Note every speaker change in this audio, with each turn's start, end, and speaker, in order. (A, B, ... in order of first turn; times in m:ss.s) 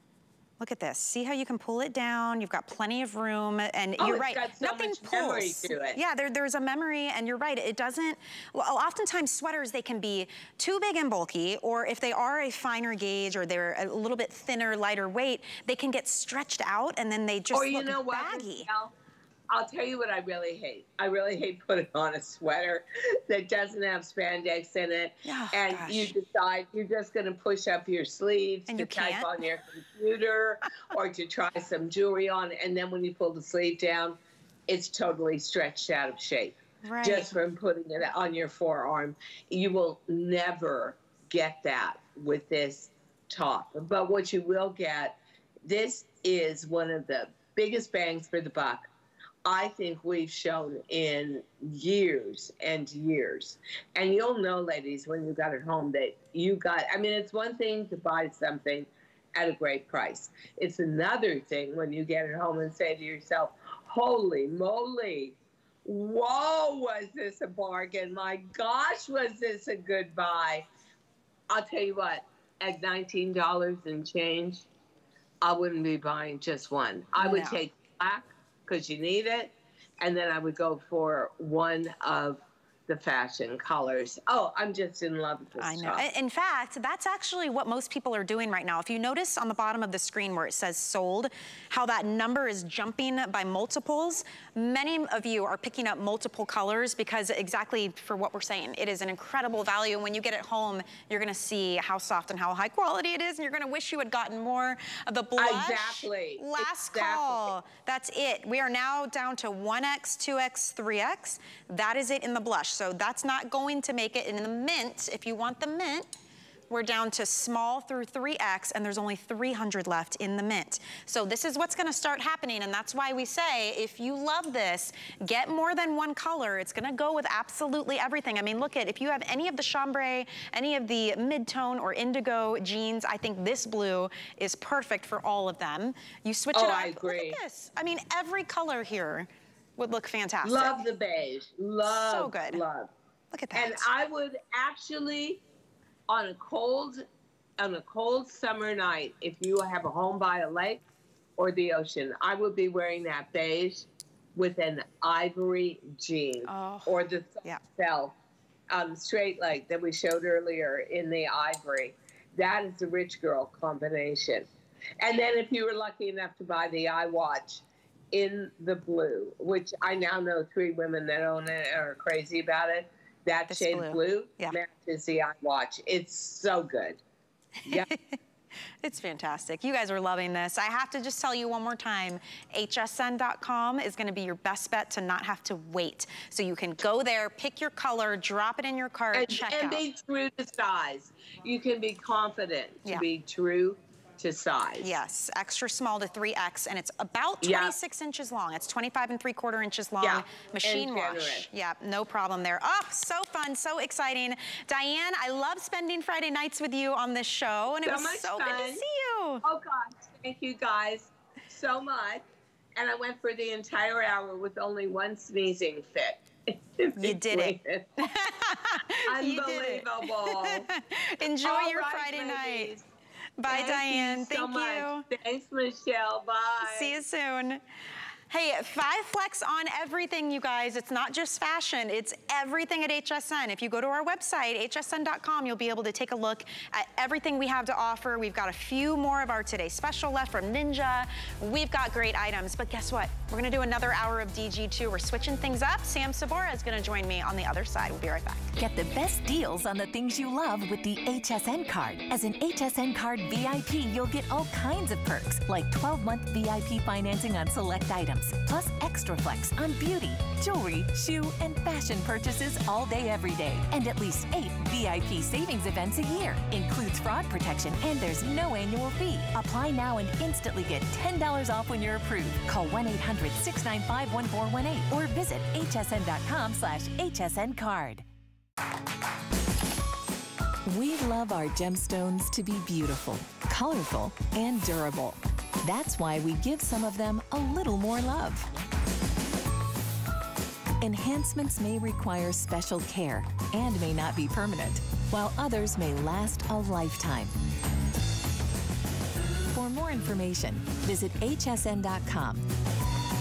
0:00.6-0:18.7 A
0:04.0-0:06.0 B
0:17.5-0:18.9 B
0:19.5-0:48.9 B
0:25.2-0:26.1 A
0:28.7-0:29.3 A
0:36.8-0:37.3 A
0:49.4-1:10.7 B
1:11.5-1:14.7 B
1:15.4-1:26.1 B
1:17.2-1:17.6 A
1:25.6-1:56.1 A
1:45.4-1:47.5 B
1:56.7-2:20.8 A
2:16.5-2:17.4 B
2:20.4-2:22.9 B
2:21.9-2:22.6 A
2:23.3-2:23.9 A
2:23.5-2:25.4 B
2:26.1-2:27.0 B
2:27.6-2:30.8 B
2:31.4-2:38.2 B
2:36.5-2:37.6 A
2:38.7-2:44.5 B
2:45.0-2:57.0 B
2:53.5-2:54.6 A
2:57.6-2:58.2 A
2:58.8-3:09.8 A
3:09.1-3:14.9 B
3:14.8-3:29.4 A
3:17.4-3:17.8 B
3:20.0-3:21.5 B
3:27.7-3:28.8 B
3:29.4-3:32.2 B
3:32.8-3:38.0 B
3:37.0-3:42.7 A
3:39.0-3:40.7 B
3:41.4-3:42.9 B
3:43.4-3:45.1 A
3:43.5-3:47.0 B
3:46.6-3:47.6 A
3:48.3-4:08.6 A
4:08.6-4:38.0 C
4:40.7-4:48.5 C
4:50.8-4:57.4 C
4:59.5-5:02.5 C